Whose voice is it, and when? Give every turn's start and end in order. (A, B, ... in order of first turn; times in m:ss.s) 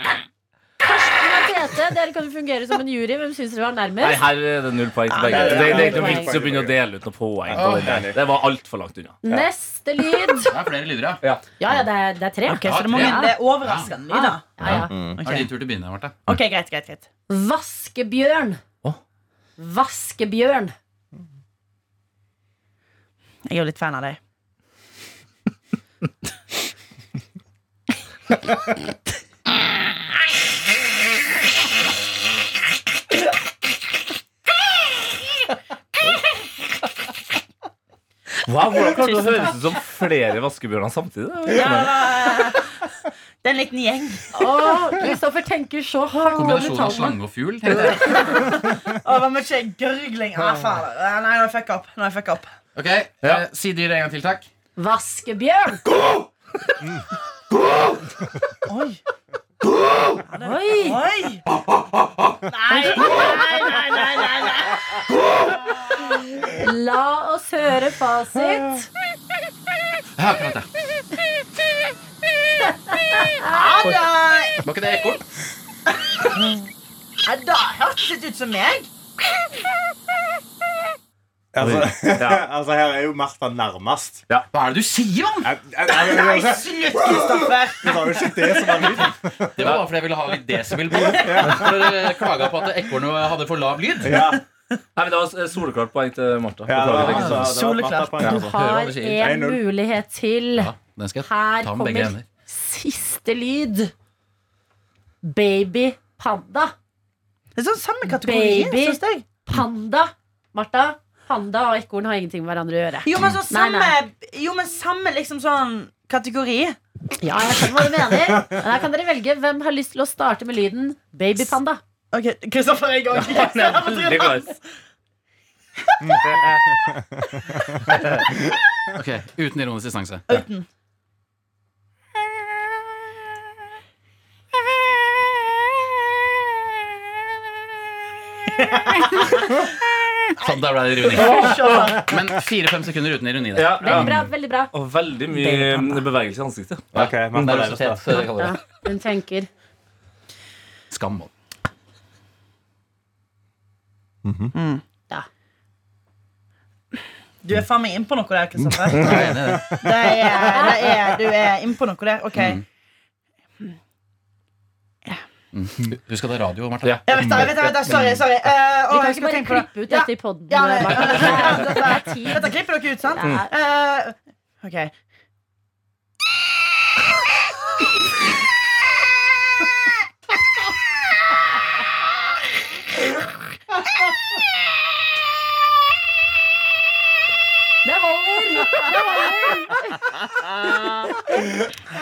0:00.8-0:04.3 A
0:04.0-0:09.2 B
0:05.2-0:05.5 C
0:05.3-0:06.8 D
0:05.3-0:06.3 A
0:07.5-0:08.2 D
0:07.5-0:08.1 E
0:09.2-0:10.5 A
0:10.4-0:11.2 E
0:11.6-0:13.3 A
0:12.5-0:14.6 C
0:12.6-0:13.9 E
0:14.1-0:14.9 A
0:14.6-0:16.2 E
0:14.7-0:15.2 D
0:15.2-0:15.5 C
0:16.3-0:17.1 C
0:17.3-0:18.6 A
0:19.6-0:20.7 A
0:23.5-0:24.2 C
0:38.5-0:42.1 B
0:41.5-0:42.7 C
0:43.4-0:44.7 C
0:44.3-0:47.2 A
0:46.2-0:46.7 C
0:46.3-0:48.5 E
0:47.8-0:52.5 C
0:52.8-0:54.5 E
0:54.8-0:55.8 A
0:58.7-0:59.0 C
1:00.3-1:01.4 C
1:00.4-1:01.0 A
1:02.5-1:04.8 C
1:02.7-1:03.4 A
1:06.4-1:08.9 A
1:10.2-1:10.7 E
1:13.1-1:13.6 A
1:13.4-1:14.6 C
1:14.6-1:15.2 E
1:17.2-1:18.9 C
1:21.5-1:24.2 D
1:21.6-1:22.4 B
1:24.5-1:25.5 E
1:25.4-1:29.8 D
1:26.0-1:28.2 C
1:29.6-1:34.3 E
1:30.9-1:31.9 D
1:31.1-1:31.4 C
1:34.0-1:34.4 D
1:35.0-1:37.5 B
1:36.7-1:38.6 D
1:36.9-1:37.5 E
1:37.4-1:38.4 C
1:38.2-1:40.7 A
1:38.3-1:39.2 E
1:39.2-1:39.6 D
1:40.6-1:42.3 E
1:41.2-1:43.9 A
1:45.2-1:46.7 A
1:47.6-1:49.3 C
1:48.1-1:54.0 A
1:53.0-1:56.8 C
1:57.2-2:01.8 A
2:02.1-2:04.6 C
2:03.1-2:04.5 B
2:06.0-2:06.2 C
2:06.9-2:07.2 D
2:09.0-2:10.2 E
2:10.3-2:10.7 C
2:18.6-2:19.4 C
2:20.4-2:24.1 E
2:20.4-2:22.1 C
2:23.6-2:24.2 B
2:23.8-2:24.7 A
2:24.7-2:28.5 B
2:25.3-2:26.0 A
2:26.9-2:28.0 D
2:27.0-2:28.5 E
2:28.1-2:29.5 A
2:30.9-2:31.3 E
2:34.2-2:34.5 D
2:34.5-2:34.8 C
2:37.4-2:42.6 C
2:38.7-2:39.9 D
2:38.9-2:39.3 B
2:39.0-2:39.8 E
2:42.4-2:42.6 E
2:45.5-2:47.9 E
2:46.8-2:47.6 B
2:47.1-2:54.9 C
2:48.9-2:52.5 A
2:53.2-2:53.5 A
3:07.8-3:10.1 A
3:11.2-3:11.5 A